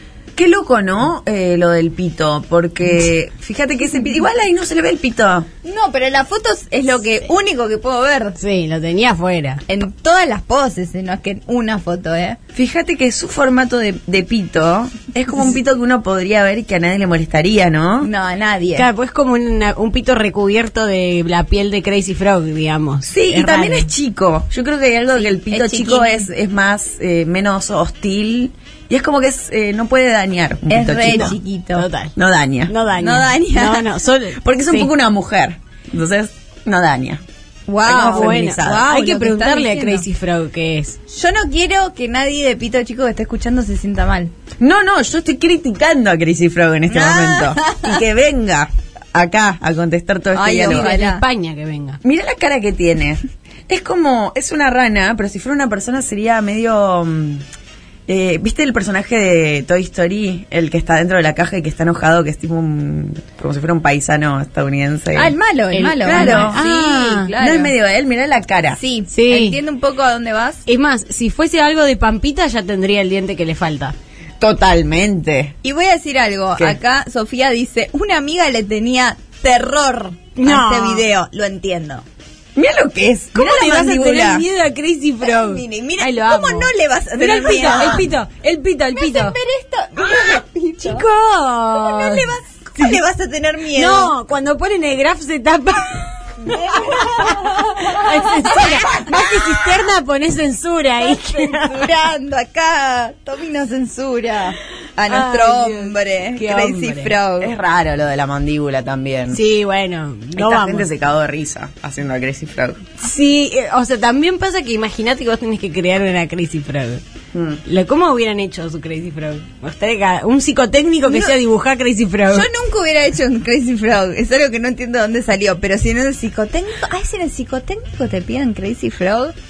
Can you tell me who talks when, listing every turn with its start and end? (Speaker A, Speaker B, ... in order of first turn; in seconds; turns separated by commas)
Speaker A: 0.3-5.5, Speaker B: 5.6-8.4, Speaker C: 8.4-9.6, Speaker B: 9.7-12.4, Speaker A: 12.5-18.1, Speaker B: 18.0-18.9, Speaker C: 18.8-23.9, Speaker A: 23.1-31.4, Speaker B: 25.2-26.3, Speaker B: 30.7-31.9, Speaker C: 31.0-32.1, Speaker A: 32.1-32.7, Speaker C: 32.7-34.9, Speaker B: 33.0-33.9, Speaker A: 34.4-37.2, Speaker B: 37.7-40.1, Speaker A: 37.8-38.9, Speaker C: 37.9-41.0, Speaker B: 41.1-44.3, Speaker A: 44.6-50.9, Speaker B: 46.9-48.0, Speaker B: 50.3-51.2, Speaker C: 50.6-52.0, Speaker A: 52.0-57.4, Speaker A: 58.1-65.3, Speaker B: 65.1-67.7, Speaker C: 65.7-67.3, Speaker A: 66.0-66.6, Speaker A: 67.4-68.8, Speaker B: 68.7-70.6, Speaker C: 69.1-69.6, Speaker C: 70.7-73.9, Speaker A: 74.4-75.6, Speaker B: 75.6-82.0, Speaker C: 80.3-81.0, Speaker A: 82.5-84.4, Speaker C: 83.3-89.3, Speaker B: 85.2-88.1, Speaker B: 88.9-91.1, Speaker C: 90.8-92.2, Speaker B: 91.7-94.1, Speaker C: 93.8-101.9, Speaker B: 96.4-99.1, Speaker B: 101.3-107.5, Speaker C: 105.1-107.1, Speaker A: 107.4-109.4, Speaker C: 109.3-110.9, Speaker A: 110.3-112.8, Speaker C: 113.0-117.0, Speaker A: 117.3-117.6, Speaker C: 117.6-122.5, Speaker B: 121.1-121.3, Speaker B: 122.3-129.3